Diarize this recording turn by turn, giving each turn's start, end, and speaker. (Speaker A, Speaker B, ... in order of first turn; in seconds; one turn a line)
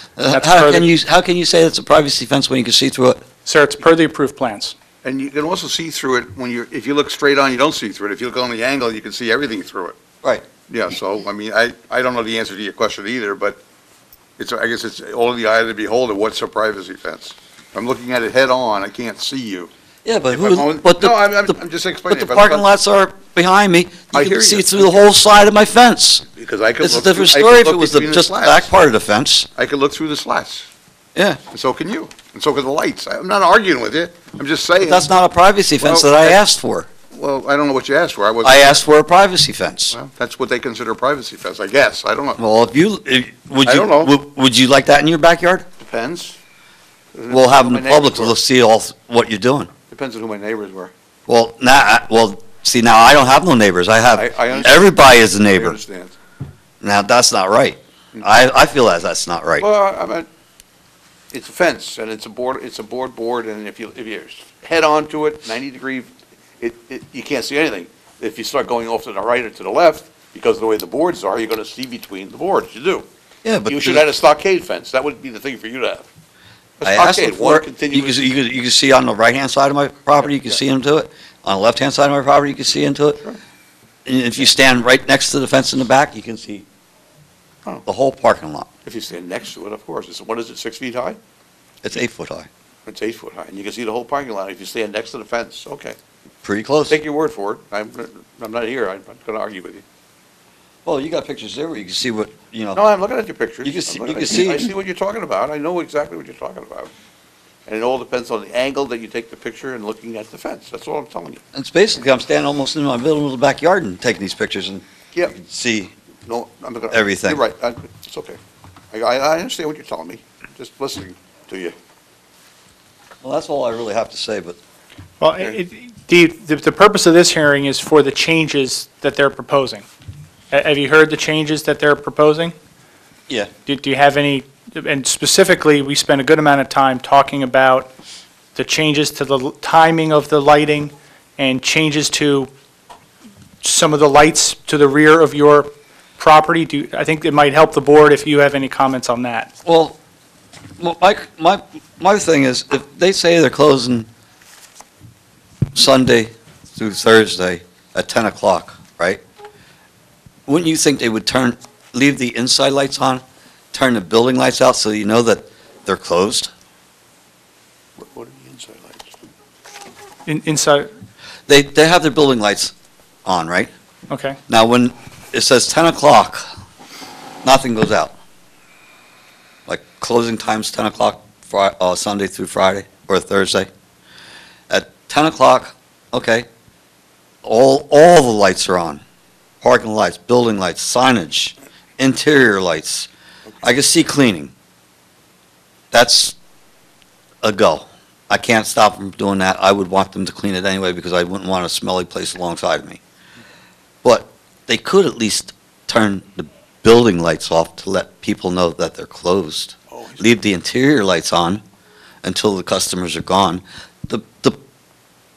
Speaker A: 0.2-3.2
Speaker B: 0.3-0.9
Speaker B: 3.4-4.7
Speaker C: 5.0-10.0
Speaker C: 10.7-13.6
Speaker C: 14.4-19.7
Speaker A: 20.0-21.6
Speaker C: 20.3-22.6
Speaker A: 22.1-26.2
Speaker C: 24.1-25.0
Speaker C: 26.3-28.7
Speaker A: 26.8-29.5
Speaker C: 29.6-30.7
Speaker A: 31.1-31.4
Speaker C: 31.5-35.1
Speaker A: 34.8-36.9
Speaker C: 35.8-36.4
Speaker C: 37.1-38.8
Speaker A: 38.4-40.0
Speaker C: 39.9-42.4
Speaker A: 42.4-45.7
Speaker C: 43.6-44.1
Speaker C: 45.8-46.4
Speaker C: 47.1-48.4
Speaker A: 47.3-49.7
Speaker C: 49.9-50.9
Speaker A: 51.3-55.8
Speaker C: 54.1-56.1
Speaker A: 56.8-59.6
Speaker C: 59.6-60.3
Speaker C: 61.3-73.0
Speaker A: 73.4-74.0
Speaker C: 73.7-76.1
Speaker C: 76.8-78.3
Speaker A: 76.8-83.2
Speaker A: 84.0-86.7
Speaker A: 87.8-88.7
Speaker C: 88.8-91.2
Speaker A: 91.8-92.5
Speaker C: 92.8-96.0
Speaker A: 96.4-97.0
Speaker C: 96.9-99.8
Speaker A: 100.8-102.8
Speaker C: 102.8-106.9
Speaker A: 103.6-104.7
Speaker C: 107.7-111.4
Speaker A: 111.5-114.8
Speaker A: 115.3-115.9
Speaker C: 116.2-118.4
Speaker A: 116.9-117.4
Speaker C: 118.9-121.7
Speaker A: 123.2-124.6
Speaker B: 125.2-129.8
Speaker B: 130.5-132.5
Speaker B: 133.7-137.9
Speaker B: 138.5-142.5
Speaker B: 143.6-149.5
Speaker A: 149.6-150.0
Speaker A: 150.8-154.1
Speaker A: 155.7-159.2
Speaker A: 160.5-166.5
Speaker C: 168.0-169.1
Speaker B: 170.2-170.9
Speaker A: 171.5-172.7
Speaker A: 173.2-173.7
Speaker B: 174.1-174.4
Speaker A: 174.5-176.4
Speaker A: 177.4-178.1
Speaker A: 179.7-183.7
Speaker A: 184.7-186.5
Speaker A: 187.4-189.0
Speaker A: 189.6-193.1
Speaker A: 193.6-194.5
Speaker A: 195.9-196.3
Speaker A: 197.4-203.0
Speaker A: 204.0-211.6
Speaker C: 209.9-210.3
Speaker A: 212.2-214.6